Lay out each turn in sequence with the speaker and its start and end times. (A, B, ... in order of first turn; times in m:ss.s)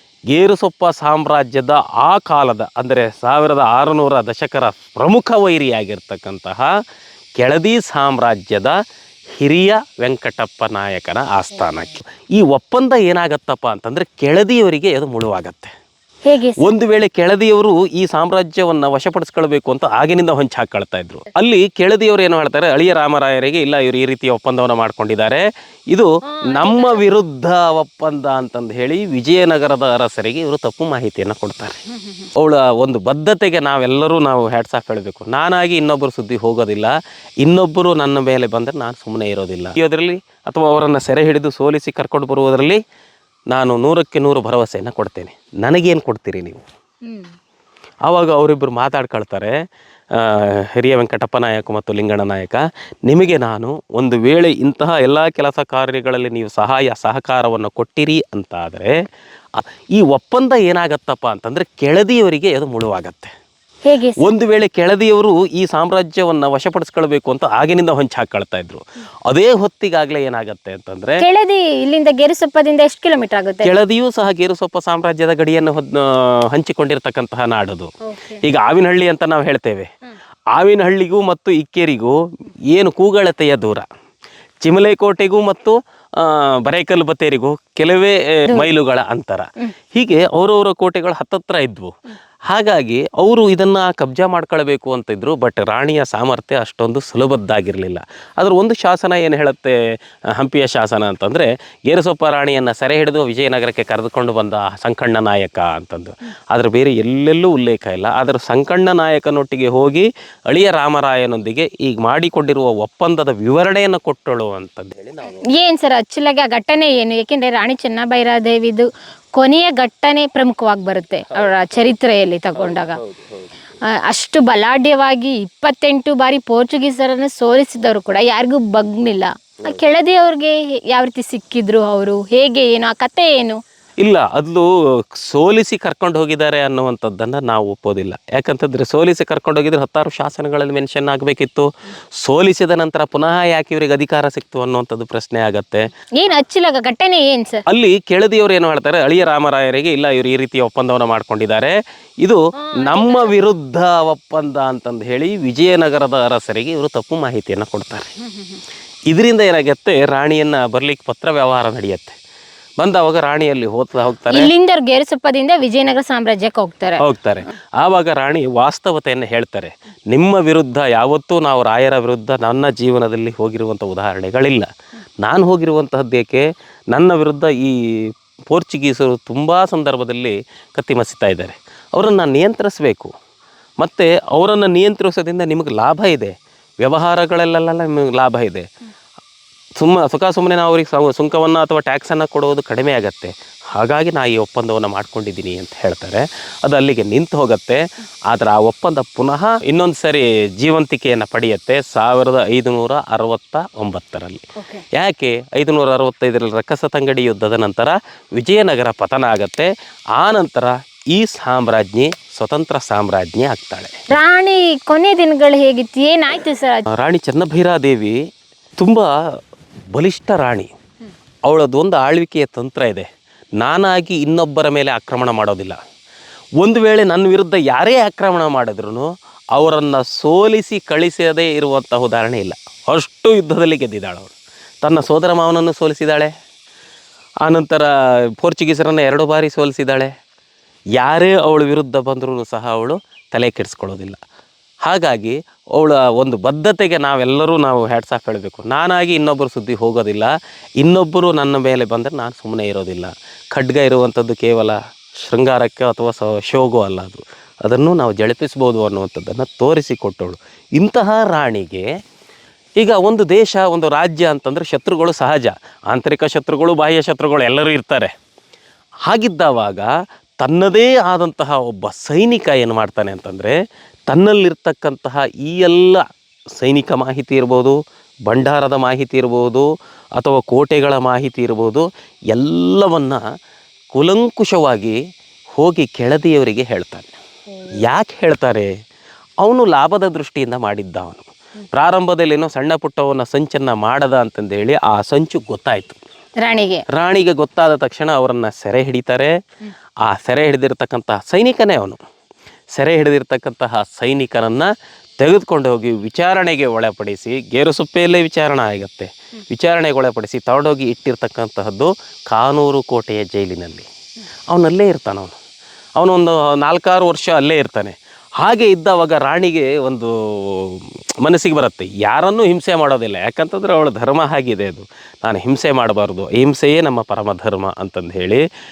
0:00.3-0:06.7 A
0:07.4-0:08.8 A
0:09.4-0:15.7 A
0:16.2-0:16.7 B
0:16.6-0:31.8 A
0:26.5-0:27.0 B
0:32.4-0:42.8 A
0:43.5-0:46.6 A
0:48.1-0:49.5 A
0:50.2-0:59.0 A
0:59.6-1:03.3 A
1:03.8-1:04.2 B
1:04.2-1:11.2 A
1:11.2-1:13.7 B
1:13.6-1:17.9 A
1:18.1-1:18.4 B
1:18.4-1:19.9 A
1:20.5-1:22.2 A
1:22.7-1:23.8 A
1:24.6-1:31.9 A
1:32.5-1:39.7 A
1:40.4-1:55.4 A
1:55.5-2:03.0 B
2:04.1-2:13.6 B
2:14.0-2:14.6 A
2:15.2-2:21.7 A
2:22.2-2:25.8 A
2:26.2-2:27.6 B
2:27.7-2:38.1 A
2:32.7-2:33.3 B
2:39.1-2:42.2 A
2:42.8-2:44.5 A
2:44.3-2:47.0 B
2:47.0-2:54.7 A
2:55.2-3:03.1 A
3:03.8-3:08.6 A
3:09.8-3:24.4 A
3:24.9-3:34.1 A
3:34.1-3:36.8 B
3:36.9-3:38.2 A
3:38.8-3:39.1 A
3:39.9-3:40.7 A
3:41.4-3:43.1 A
3:43.6-3:45.8 A
3:46.6-3:56.3 A
3:57.4-4:00.1 A
4:01.0-4:04.2 A
4:04.8-4:21.9 A
4:22.8-4:28.1 A
4:29.1-4:29.9 A
4:30.4-4:33.6 A
4:34.1-4:36.0 A
4:36.6-4:43.2 A
4:43.9-4:45.0 A
4:45.6-4:47.1 A
4:47.8-4:48.7 A
4:49.4-4:56.0 A
4:56.4-4:56.8 B
4:56.9-4:59.3 A
5:00.0-5:02.0 A
5:02.7-5:13.9 A
5:14.5-5:15.3 A
5:16.0-5:28.4 A